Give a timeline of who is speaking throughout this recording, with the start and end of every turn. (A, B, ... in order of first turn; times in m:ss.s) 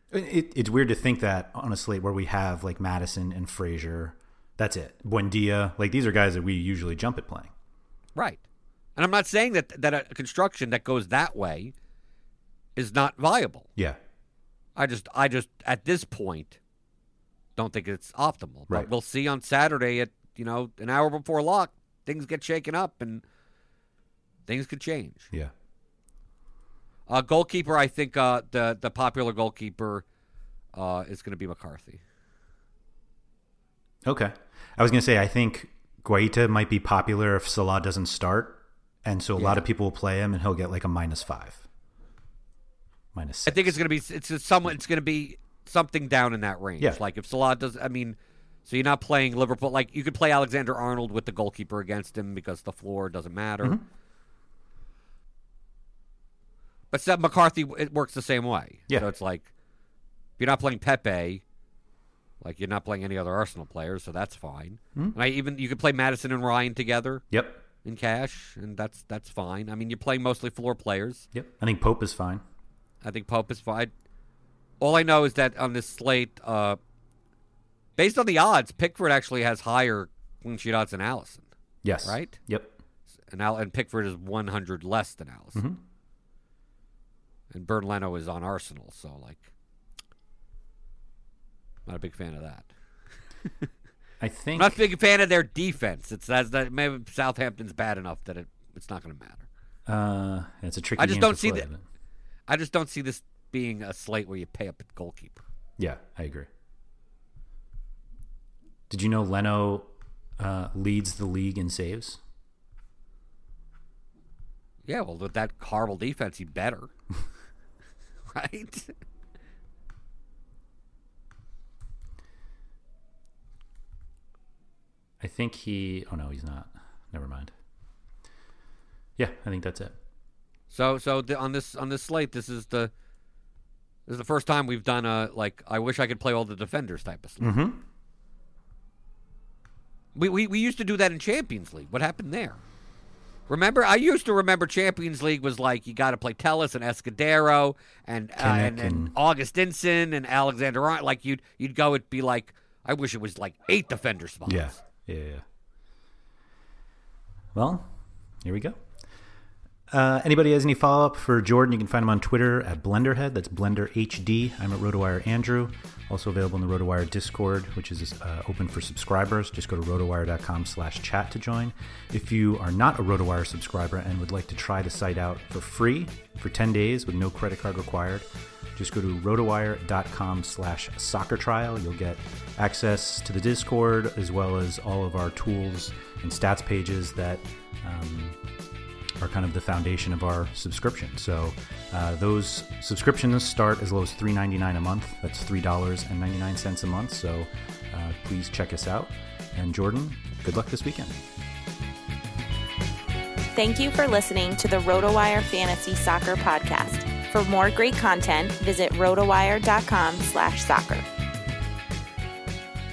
0:00.1-0:07.5 A
0:08.2-0:08.4 B
0:09.0-0:11.7 B
0:12.8-0:13.7 B
0:14.8-0:16.6 B
0:17.6-0:23.2 B
0:24.5-0:25.3 B
0:27.1-0:30.0 B
0:30.7-0:32.0 B
0:34.0-0:41.6 A
0:39.4-0:39.6 B
0:43.1-0:43.8 A
0:43.5-0:53.8 B
0:56.9-0:59.5 B
1:00.4-1:01.4 B
1:02.4-1:07.2 B
1:07.3-1:07.6 A
1:07.8-1:11.3 B
1:11.3-1:12.4 A
1:13.0-1:13.9 B
1:14.8-1:16.8 B
1:18.0-1:21.5 B
1:21.8-1:22.8 A
1:22.0-1:22.4 B
1:23.3-1:25.6 B
1:25.5-1:25.8 A
1:27.5-1:29.5 B
1:31.9-1:32.7 B
1:34.2-1:34.9 A
1:34.6-1:39.5 B
1:39.9-1:41.8 A
1:41.0-1:41.7 B
1:42.5-1:45.4 B
1:45.8-1:46.5 A
1:48.9-1:52.2 A
1:54.9-1:56.9 B
1:58.3-1:58.9 B
2:05.2-2:07.5 A
2:09.2-2:10.0 A
2:10.7-2:12.9 B
2:14.1-2:17.5 B
2:17.4-2:17.8 A
2:20.2-2:22.6 B
2:23.5-2:34.8 B
2:28.4-2:29.1 A
2:34.5-2:35.4 A
2:37.5-2:38.8 A
2:39.9-3:08.4 A
3:09.2-3:21.2 A
3:23.5-3:31.1 C